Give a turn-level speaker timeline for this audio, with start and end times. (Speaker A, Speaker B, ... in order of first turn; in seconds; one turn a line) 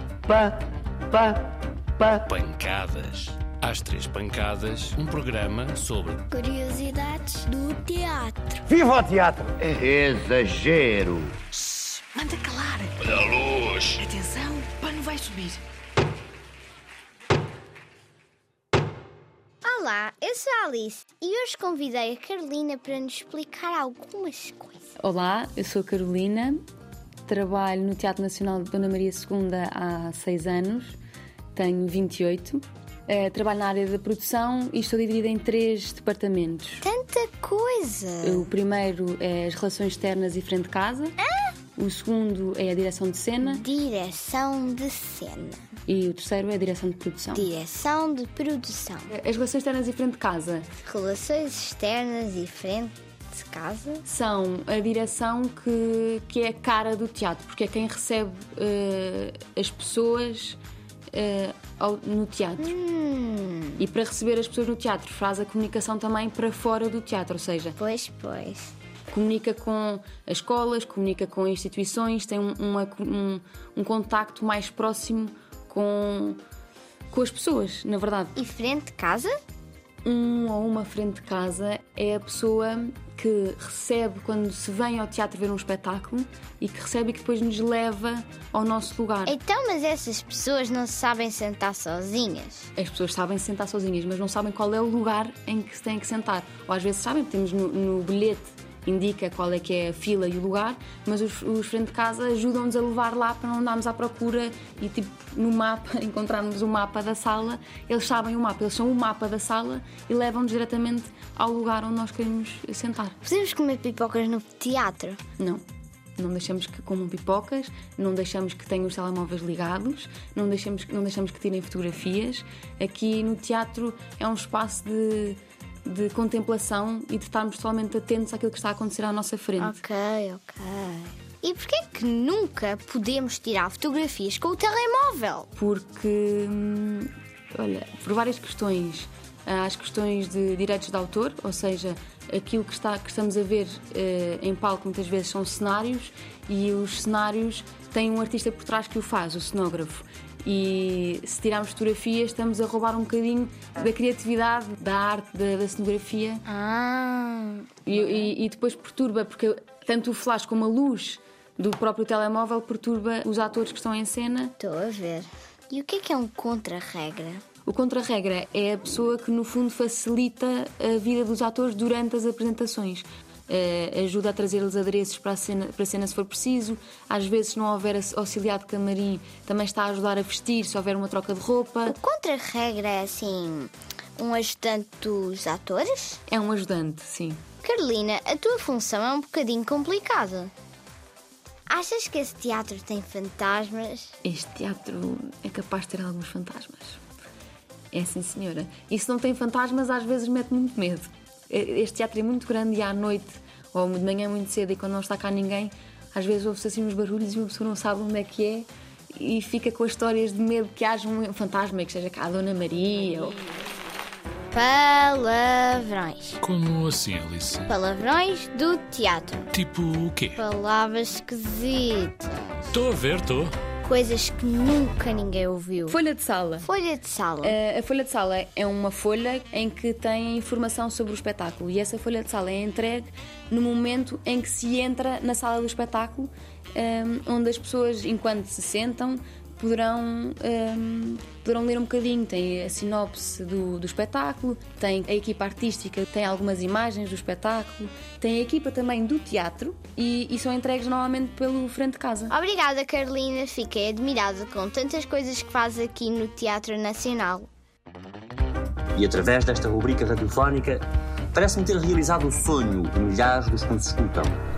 Speaker A: 0.3-0.6
Speaker A: 1.1-2.2
Speaker B: 2.3-6.2
Speaker C: 6.3-8.4
Speaker A: 8.8-11.4
Speaker D: 12.1-12.9
Speaker D: 13.9-15.6
Speaker C: 19.6-24.9
Speaker E: 25.0-26.6
Speaker E: 27.3-30.9
Speaker E: 31.6-36.8
Speaker C: 36.8-38.5
Speaker E: 38.2-41.2
Speaker E: 41.8-43.6
Speaker C: 43.4-45.7
Speaker E: 45.9-47.5
Speaker C: 47.3-49.1
Speaker E: 49.1-50.7
Speaker C: 50.8-54.0
Speaker E: 54.0-60.6
Speaker E: 61.1-62.7
Speaker C: 62.6-63.8
Speaker E: 63.8-67.8
Speaker C: 67.8-68.7
Speaker E: 69.1-76.4
Speaker E: 77.1-78.3
Speaker C: 78.3-79.3
Speaker E: 80.0-89.4
Speaker C: 89.2-92.7
Speaker E: 92.8-113.2
Speaker C: 113.2-115.2
Speaker E: 116.2-129.8
Speaker C: 129.6-135.5
Speaker E: 135.6-156.4
Speaker C: 156.5-158.3
Speaker E: 157.8-164.5
Speaker C: 164.6-167.4
Speaker E: 167.7-182.0
Speaker C: 181.8-186.2
Speaker E: 186.3-187.4
Speaker C: 187.6-190.5
Speaker C: 191.7-194.2
Speaker E: 194.2-197.0
Speaker E: 197.9-213.4
Speaker C: 214.5-216.4
Speaker B: 216.4-217.7
Speaker C: 217.7-219.5
Speaker B: 219.5-220.4
Speaker C: 220.3-222.8
Speaker B: 222.7-223.5
Speaker C: 223.8-226.0
Speaker E: 225.8-226.7
Speaker C: 226.6-227.6
Speaker E: 227.4-252.3
Speaker C: 252.3-257.5
Speaker F: 258.9-264.4